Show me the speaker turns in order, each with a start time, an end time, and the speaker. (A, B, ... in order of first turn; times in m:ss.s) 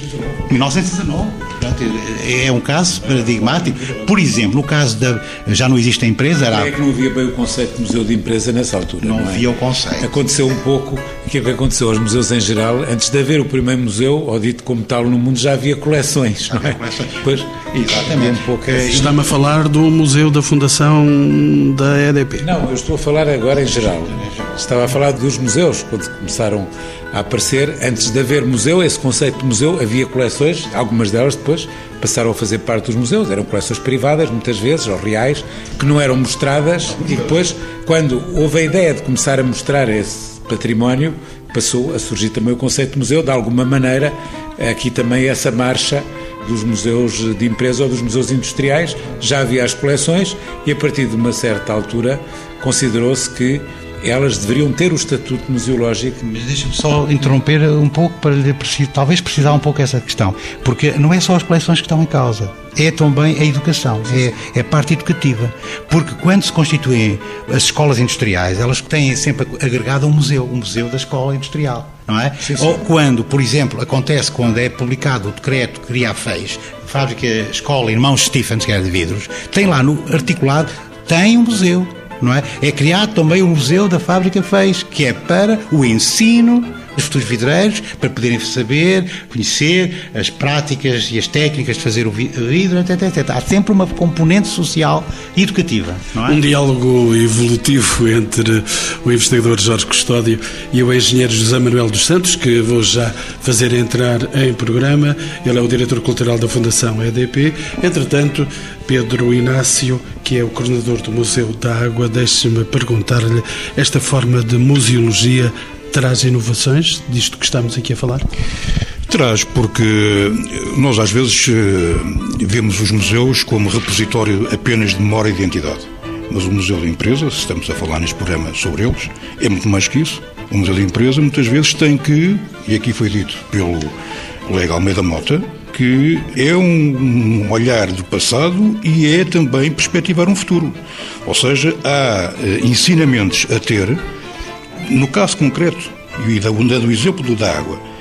0:00.5-0:06.7 A
0:06.5-0:09.4 B
0:09.0-0:10.2 A
0:10.0-0:19.1 B
0:16.5-0:19.1 A
0:18.8-0:22.5 C
0:22.4-0:56.2 B
0:24.1-0:24.5 A
0:56.2-1:36.4 A
1:12.4-1:12.8 B
1:36.3-1:58.3 C
1:59.1-2:13.9 D
2:14.5-2:24.0 D
2:24.8-2:27.8 D